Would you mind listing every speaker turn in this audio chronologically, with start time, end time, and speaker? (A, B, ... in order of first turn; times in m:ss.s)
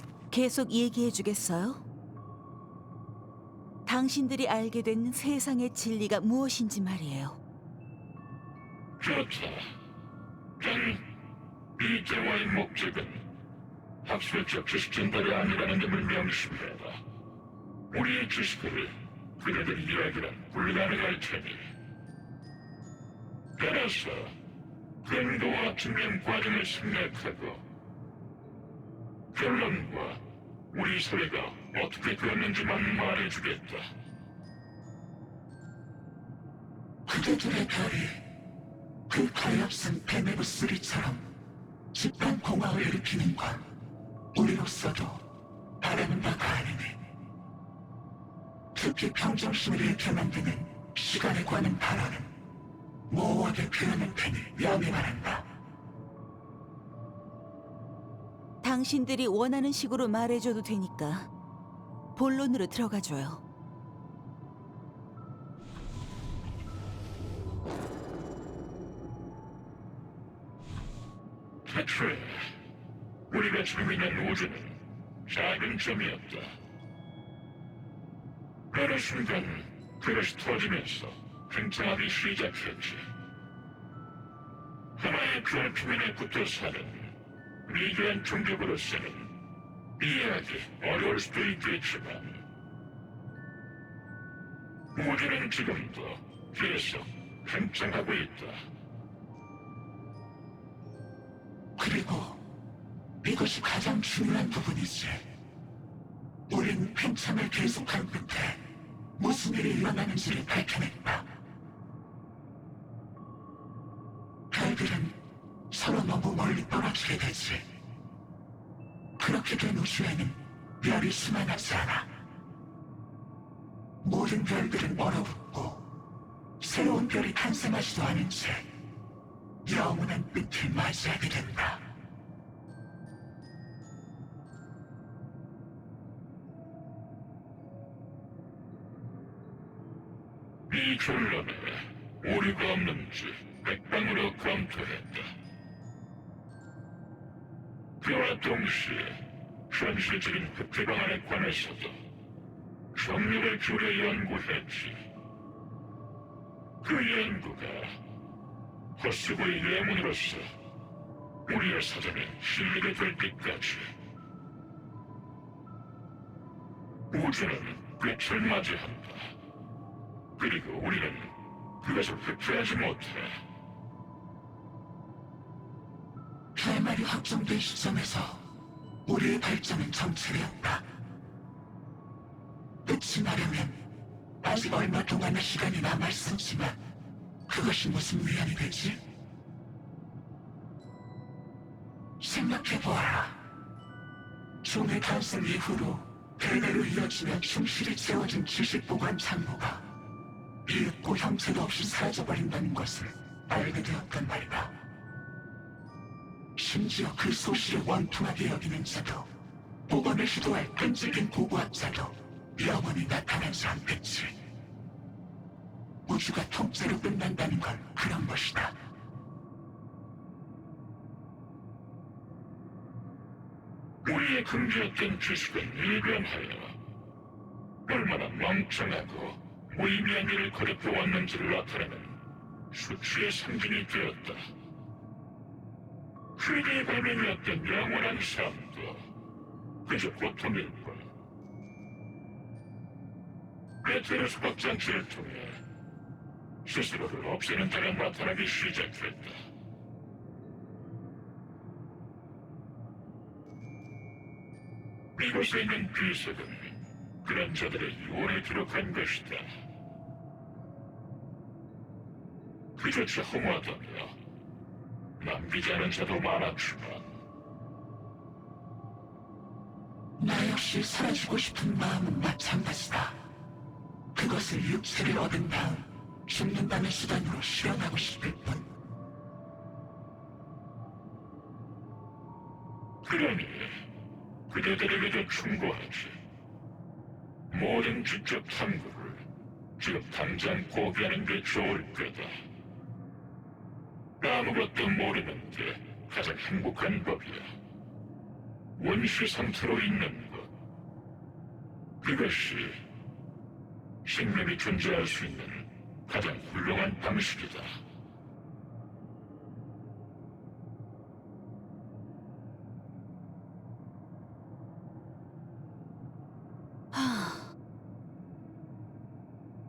0:00.3-0:01.9 A
0:03.9-0:07.4 A
0:09.0-0:09.7 B
0:10.6-0:11.0 B
0:11.8-0:13.2 B
0:14.0-0:17.0 B
0:17.9-0:21.7 B
0:23.6-0:24.4 B
0:25.0-0:27.6 B
0:29.3-0:33.9 B
0:37.1-0:38.2 C
0:39.1-0:41.3 C
0:41.9-0:43.7 C
0:44.3-0:45.3 C
0:45.8-0:47.0 C
0:48.7-0:52.3 C
0:53.1-0:55.5 C
0:58.6-1:01.3 A
1:02.2-1:03.4 A
1:11.7-1:12.5 B
1:13.3-1:16.6 B
1:18.7-1:23.1 B
1:25.0-1:27.1 B
1:27.7-1:29.3 B
1:30.0-1:32.4 B
1:34.9-1:38.6 B
1:41.8-1:42.4 C
1:43.2-1:45.3 C
1:46.5-1:51.3 C
1:54.5-1:57.7 C
1:59.2-2:02.1 C
2:04.0-2:05.9 C
2:06.6-2:08.7 C
2:09.6-2:11.9 C
2:20.7-2:25.3 B
2:28.0-2:32.0 B
2:33.0-2:35.0 B
2:36.8-2:38.0 B
2:39.0-2:40.5 B
2:41.5-2:43.9 B
2:47.1-2:49.3 B
2:50.4-2:53.4 B
2:56.6-2:58.5 C
2:59.0-3:00.9 C
3:02.8-3:03.8 C
3:04.4-3:06.8 C
3:07.5-3:09.0 C
3:12.2-3:13.4 C
3:14.6-3:19.9 C
3:20.7-3:24.8 C
3:26.6-3:29.3 C
3:29.9-3:34.4 C
3:36.1-3:38.8 C
3:44.0-3:46.8 B
3:47.9-3:52.2 B
3:52.7-3:54.5 B
3:56.4-3:59.0 B
3:59.8-4:01.1 B
4:03.8-4:05.6 B
4:06.6-4:09.4 B
4:15.2-4:19.5 B
4:22.8-4:24.2 B
4:25.2-4:27.1 B
4:30.2-4:33.2 C
4:34.1-4:38.7 C
4:43.0-4:43.8 B
4:44.5-4:46.2 B
4:47.5-4:49.2 B
4:49.8-4:52.4 B
4:54.2-4:57.5 B
4:58.8-5:00.5 B
5:02.0-5:02.8 B
5:04.0-5:07.8 B
5:16.9-5:17.6 A